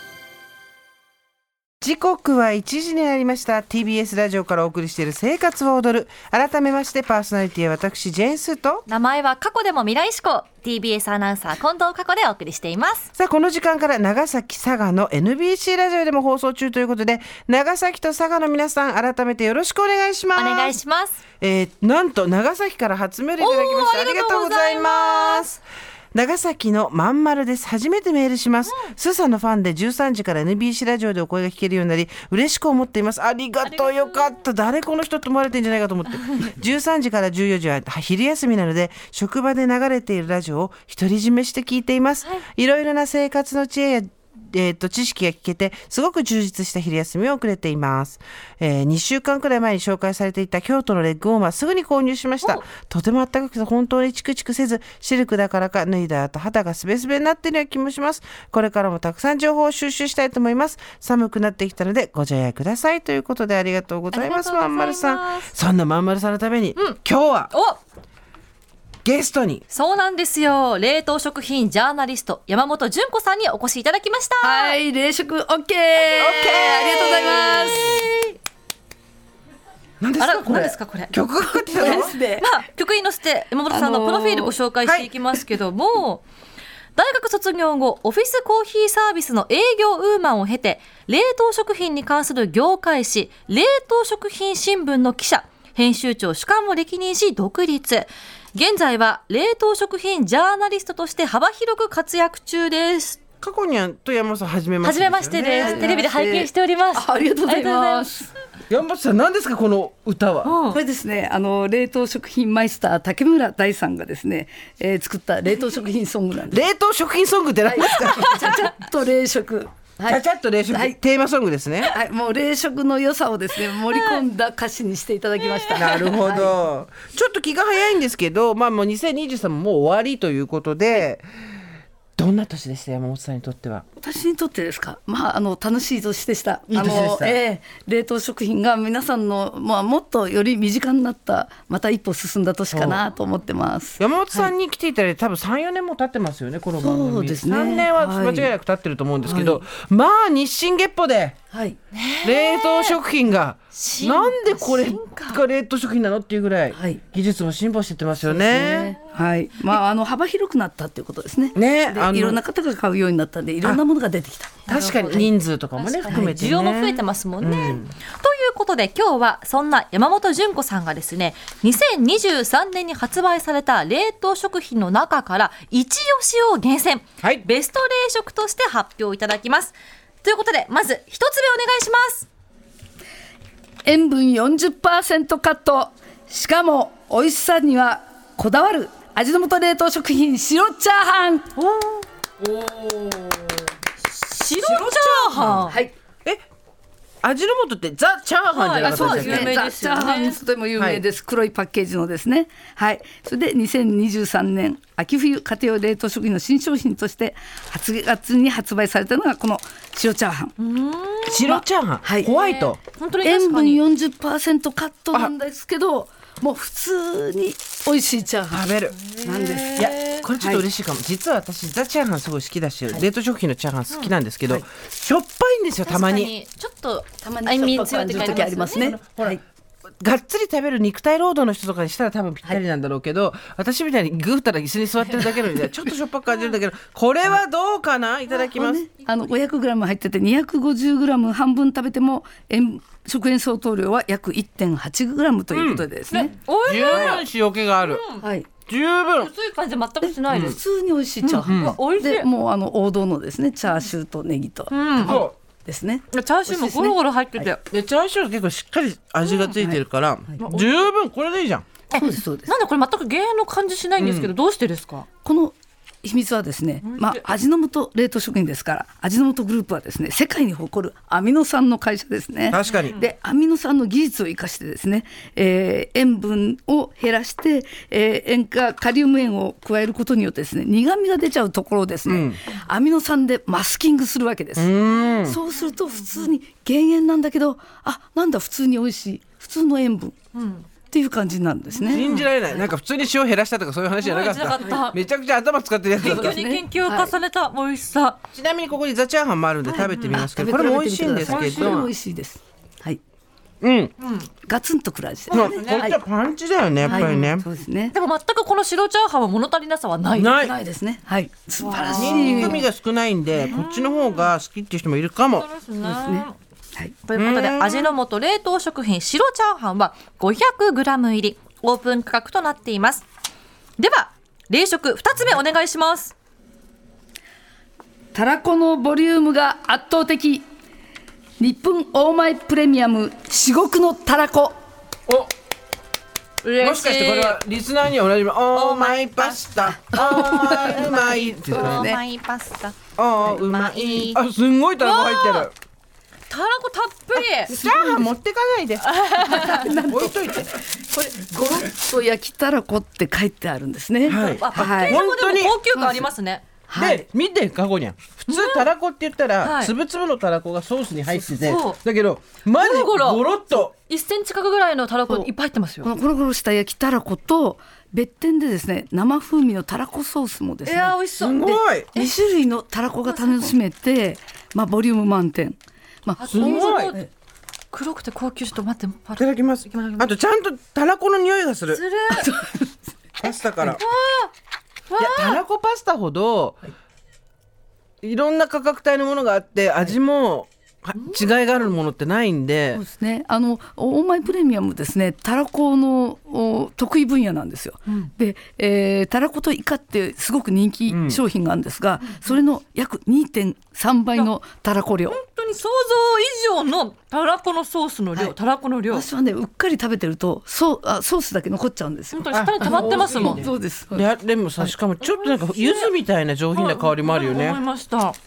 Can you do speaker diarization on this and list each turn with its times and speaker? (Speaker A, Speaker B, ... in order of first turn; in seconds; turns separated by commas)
Speaker A: 1.8-8.9, Speaker B: 8.9-13.1, Speaker A: 13.2-20.8, Speaker B: 20.4-21.2, Speaker A: 21.4-25.5, Speaker B: 23.4-25.6, Speaker A: 26.1-67.5, Speaker B: 28.7-28.9, Speaker B: 33.6-34.4, Speaker B: 64.1-65.5, Speaker B: 67.5-67.8, Speaker A: 69.0-69.6, Speaker B: 69.7-74.8, Speaker C: 74.4-78.0, Speaker A: 76.2-77.5, Speaker B: 76.8-78.4, Speaker A: 80.0-82.2, Speaker B: 80.2-81.2, Speaker C: 81.6-82.5, Speaker B: 81.7-86.2, Speaker C: 83.7-84.6, Speaker A: 84.8-85.1, Speaker B: 87.0-103.2, Speaker A: 103.4-105.9, Speaker B: 104.8-108.1, Speaker C: 105.5-108.3, Speaker A: 108.7-110.5, Speaker B: 110.4-110.8, Speaker C: 110.7-116.6, Speaker A: 116.5-118.5, Speaker C: 117.6-121.0, Speaker B: 118.0-118.6, Speaker A: 120.0-122.0, Speaker C: 121.9-126.5, Speaker B: 123.7-124.2, Speaker B: 125.4-126.1, Speaker A: 125.7-131.2, Speaker A: 132.2-133.8, Speaker C: 134.0-144.5, Speaker A: 136.7-137.4, Speaker A: 142.7-143.0, Speaker A: 144.0-151.4, Speaker C: 146.8-148.5, Speaker C: 149.3-149.6, Speaker C: 151.5-151.8, Speaker B: 151.9-153.0, Speaker A: 152.2-159.0, Speaker B: 153.7-155.4, Speaker C: 156.7-157.0, Speaker C: 158.2-164.6, Speaker A: 161.6-162.4, Speaker B: 164.7-182.3, Speaker A: 164.7-167.9, Speaker C: 166.1-166.6, Speaker C: 183.8-191.5, Speaker A: 192.4-193.7, Speaker B: 194.0-195.8, Speaker A: 194.6-195.7, Speaker C: 195.7-195.9, Speaker A: 197.2-199.5, Speaker B: 198.5-200.4, Speaker C: 198.8-210.5, Speaker A: 200.8-201.0, Speaker B: 210.6-211.5, Speaker A: 211.3-212.8, Speaker C: 211.4-212.3, Speaker B: 212.3-213.8, Speaker C: 213.2-218.7, Speaker A: 218.5-226.3, Speaker C: 219.2-220.6, Speaker B: 219.3-220.2, Speaker B: 225.8-228.9, Speaker C: 227.2-229.4, Speaker A: 228.1-229.4, Speaker A: 230.0-238.8, Speaker C: 238.6-246.3, Speaker A: 245.5-245.9, Speaker B: 246.1-248.3, Speaker A: 246.6-248.0, Speaker C: 248.2-248.5, Speaker A: 248.7-249.3, Speaker B: 249.2-250.6, Speaker C: 250.0-257.5, Speaker A: 250.3-250.6, Speaker B: 251.2-252.3, Speaker A: 251.5-251.8, Speaker B: 254.7-255.3, Speaker A: 255.0-255.3, Speaker B: 256.1-257.6, Speaker A: 257.7-261.6, Speaker B: 259.2-259.6, Speaker B: 260.4-260.9, Speaker B: 261.9-265.1, Speaker C: 261.9-262.5, Speaker A: 264.0-264.3, Speaker C: 265.2-284.7, Speaker B: 266.8-267.2, Speaker A: 272.5-273.0, Speaker B: 272.6-273.1, Speaker A: 282.1-282.4, Speaker A: 284.6-285.4, Speaker C: 285.2-290.2, Speaker B: 285.7-286.3, Speaker B: 290.3-290.7, Speaker C: 290.9-292.6, Speaker B: 291.7-292.3, Speaker A: 291.9-296.4, Speaker B: 294.0-295.0, Speaker B: 296.0-298.2, Speaker C: 296.0-297.1, Speaker A: 298.3-301.9, Speaker C: 299.6-303.0, Speaker B: 299.8-300.2, Speaker B: 301.2-301.8, Speaker A: 303.6-303.9, Speaker B: 304.0-304.3, Speaker C: 304.5-306.0, Speaker B: 305.3-305.9, Speaker A: 305.3-307.5, Speaker B: 306.8-307.4, Speaker C: 306.9-307.9, Speaker B: 307.9-310.6, Speaker A: 310.1-310.5, Speaker C: 310.5-312.6, Speaker B: 311.6-312.6, Speaker A: 311.9-315.5, Speaker B: 313.4-314.3, Speaker B: 315.4-316.4, Speaker C: 315.8-316.9, Speaker B: 317.1-323.1, Speaker A: 317.1-317.9, Speaker B: 323.8-326.1, Speaker C: 328.1-330.4, Speaker C: 331.4-334.6, Speaker B: 336.4-337.4, Speaker A: 336.6-341.9, Speaker B: 338.5-344.2, Speaker C: 339.9-342.0, Speaker A: 343.0-345.5, Speaker B: 344.8-345.5, Speaker B: 346.3-347.5, Speaker A: 347.4-348.9, Speaker C: 347.5-348.1, Speaker B: 348.9-349.7, Speaker C: 349.2-355.0, Speaker A: 349.8-350.5, Speaker A: 354.1-355.6, Speaker B: 354.1-356.4, Speaker C: 355.7-356.1, Speaker C: 356.7-357.1, Speaker A: 356.8-363.7, Speaker B: 358.3-358.7, Speaker B: 359.4-359.7, Speaker B: 361.2-361.8, Speaker B: 362.5-365.9, Speaker C: 365.8-371.0, Speaker B: 370.6-372.2, Speaker A: 371.2-371.9, Speaker C: 371.9-377.1, Speaker B: 373.1-373.6, Speaker B: 376.2-377.1, Speaker A: 376.2-376.9, Speaker B: 377.7-380.1, Speaker A: 379.2-381.8, Speaker B: 381.7-382.3, Speaker C: 382.1-382.8, Speaker A: 383.2-383.8, Speaker B: 383.6-384.3, Speaker B: 384.9-385.4, Speaker A: 385.0-386.6, Speaker A: 388.0-392.8, Speaker B: 391.0-391.3, Speaker C: 392.7-405.2, Speaker A: 400.9-401.2, Speaker B: 405.1-409.1, Speaker C: 408.9-414.1, Speaker B: 412.1-413.5, Speaker A: 412.3-417.6, Speaker B: 415.0-415.9, Speaker B: 416.5-418.2